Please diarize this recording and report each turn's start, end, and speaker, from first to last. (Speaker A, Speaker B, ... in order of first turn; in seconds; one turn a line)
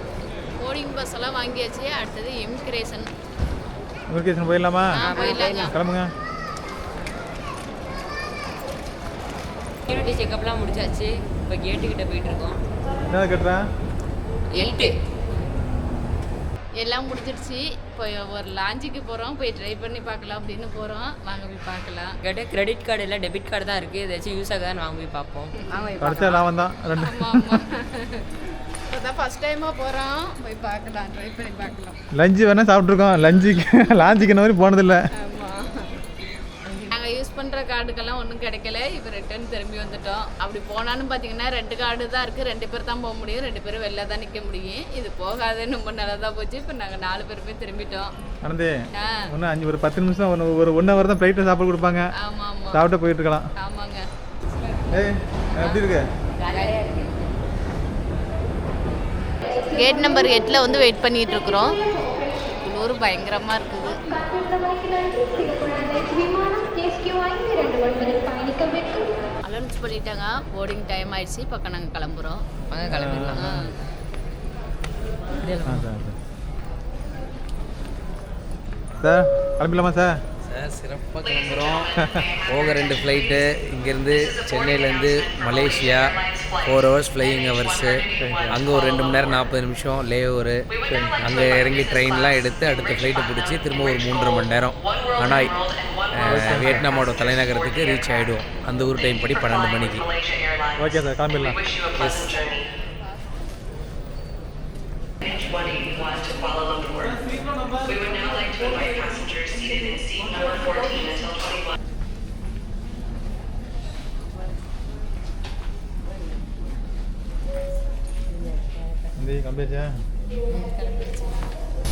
Speaker A: 0.6-3.1
Speaker B: 4.1-5.0
Speaker A: 4.9-5.7
Speaker C: 5.0-5.7
Speaker B: 5.5-6.1
Speaker C: 9.9-12.6
Speaker B: 13.1-13.6
Speaker C: 14.6-14.9
Speaker A: 14.6-14.9
Speaker A: 16.8-22.1
Speaker C: 22.2-25.6
Speaker A: 25.7-26.5
Speaker B: 26.0-27.6
Speaker A: 27.0-28.3
Speaker A: 28.9-32.0
Speaker B: 32.1-35.0
Speaker A: 35.2-35.6
Speaker A: 36.9-48.1
Speaker B: 48.4-48.7
Speaker B: 49.3-52.0
Speaker A: 52.2-52.8
Speaker B: 52.7-53.4
Speaker A: 53.6-54.9
Speaker B: 54.9-56.0
Speaker A: 55.5-55.8
Speaker C: 56.4-57.0
Speaker A: 59.7-61.8
Speaker A: 62.6-64.0
Speaker C: 65.8-66.4
Speaker A: 69.4-72.4
Speaker C: 72.7-73.7
Speaker B: 72.9-73.4
Speaker A: 73.4-73.7
Speaker C: 75.4-75.9
Speaker B: 75.7-76.1
Speaker B: 79.0-80.2
Speaker D: 80.4-81.9
Speaker D: 82.5-90.6
Speaker B: 88.2-88.6
Speaker B: 90.9-91.2
Speaker D: 91.2-95.5
Speaker D: 96.1-100.1
Speaker B: 96.2-96.9
Speaker B: 100.8-101.6
Speaker D: 101.9-102.5
Speaker B: 106.9-109.1
Speaker B: 119.2-119.9
Speaker A: 120.5-121.5